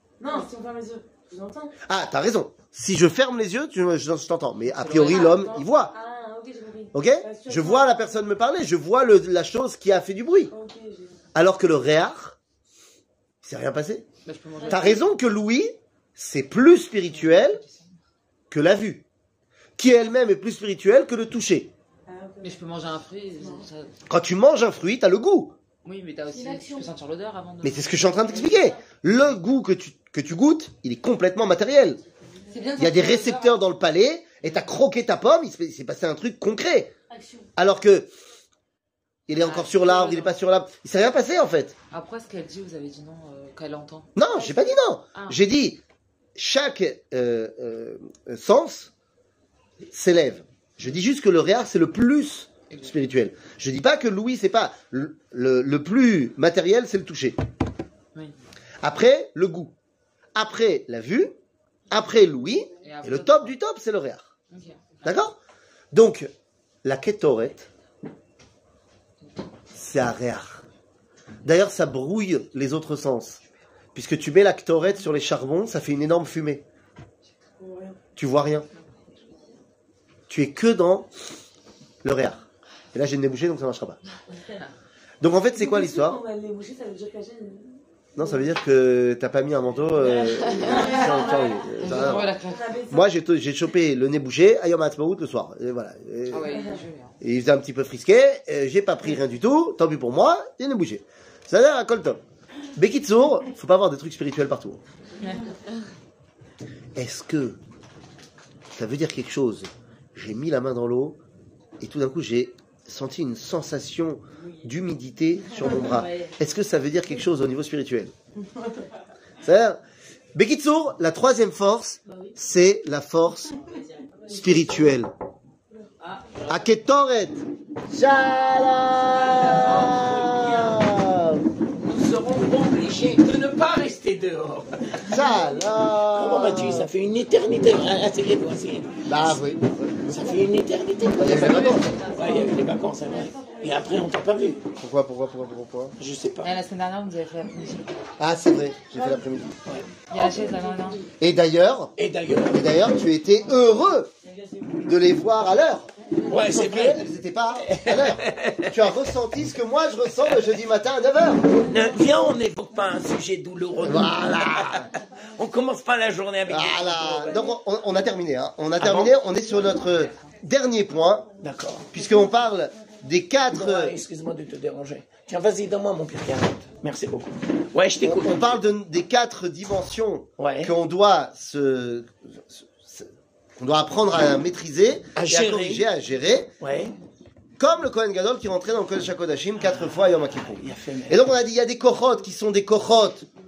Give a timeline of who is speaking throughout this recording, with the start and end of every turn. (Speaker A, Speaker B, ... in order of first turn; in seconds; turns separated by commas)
Speaker A: 0.2-1.7, Speaker B: 0.2-0.5, Speaker C: 1.9-5.9, Speaker D: 4.7-5.6, Speaker A: 5.1-8.1, Speaker C: 6.9-10.5, Speaker A: 10.5-11.2, Speaker C: 11.3-12.4, Speaker C: 13.4-14.0, Speaker D: 14.2-15.1, Speaker C: 14.7-17.6, Speaker D: 17.1-17.9, Speaker C: 18.5-19.0, Speaker C: 19.8-21.7, Speaker A: 22.1-22.6, Speaker D: 22.4-23.9, Speaker C: 24.1-25.5, Speaker D: 25.8-28.6, Speaker B: 26.3-26.9, Speaker C: 27.6-32.0, Speaker B: 28.3-28.8, Speaker A: 32.5-33.1, Speaker D: 32.5-33.5, Speaker C: 32.8-36.9, Speaker B: 37.1-37.5, Speaker C: 37.5-38.1, Speaker C: 39.3-41.7, Speaker D: 39.3-40.4, Speaker D: 41.9-44.1, Speaker C: 44.1-45.8, Speaker B: 44.3-44.8, Speaker C: 46.4-48.9, Speaker C: 49.9-57.4, Speaker C: 58.8-59.7, Speaker C: 60.3-61.3, Speaker C: 61.9-64.3, Speaker D: 62.8-63.5, Speaker D: 64.5-65.0, Speaker C: 65.0-65.3, Speaker C: 65.9-66.3, Speaker C: 66.8-67.7, Speaker C: 69.7-70.6, Speaker C: 71.4-73.4, Speaker C: 73.9-76.6, Speaker A: 77.6-78.0, Speaker C: 78.2-78.7, Speaker D: 79.0-79.4, Speaker C: 80.3-81.1, Speaker C: 82.0-84.0, Speaker C: 85.2-86.2, Speaker A: 85.5-88.3, Speaker C: 88.1-92.3, Speaker B: 90.2-91.6, Speaker A: 90.6-93.1, Speaker D: 91.8-92.7, Speaker C: 92.9-96.5, Speaker D: 96.3-97.1, Speaker C: 97.2-102.2, Speaker C: 102.7-104.8, Speaker C: 107.0-107.6, Speaker C: 108.7-111.2, Speaker C: 111.8-118.1, Speaker B: 115.5-116.3, Speaker C: 119.4-119.8, Speaker C: 120.3-123.6, Speaker B: 122.1-122.3, Speaker B: 123.7-124.3, Speaker C: 124.3-125.1, Speaker B: 126.0-126.3, Speaker C: 126.5-131.4, Speaker B: 129.4-130.3, Speaker E: 129.6-130.7, Speaker E: 131.8-135.5, Speaker C: 135.0-136.9, Speaker E: 136.1-139.3, Speaker C: 139.0-140.2, Speaker E: 140.0-144.6, Speaker C: 141.2-142.0, Speaker C: 144.8-145.9, Speaker E: 146.0-146.5, Speaker D: 146.4-147.9, Speaker C: 148.2-149.6, Speaker E: 149.7-149.9, Speaker D: 150.1-151.0, Speaker A: 150.1-151.0, Speaker C: 151.2-151.9, Speaker E: 152.0-152.7, Speaker C: 152.5-154.1, Speaker C: 154.8-161.4, Speaker E: 156.3-157.1, Speaker E: 157.7-158.9, Speaker E: 161.6-167.6, Speaker C: 163.8-164.9, Speaker C: 166.5-171.3, Speaker E: 168.8-169.2, Speaker E: 171.4-171.9, Speaker C: 171.9-173.9, Speaker E: 173.5-178.6, Speaker C: 178.0-186.5, Speaker E: 180.4-180.7, Speaker E: 185.1-185.9, Speaker E: 186.6-186.9, Speaker C: 187.6-193.2, Speaker E: 189.6-191.2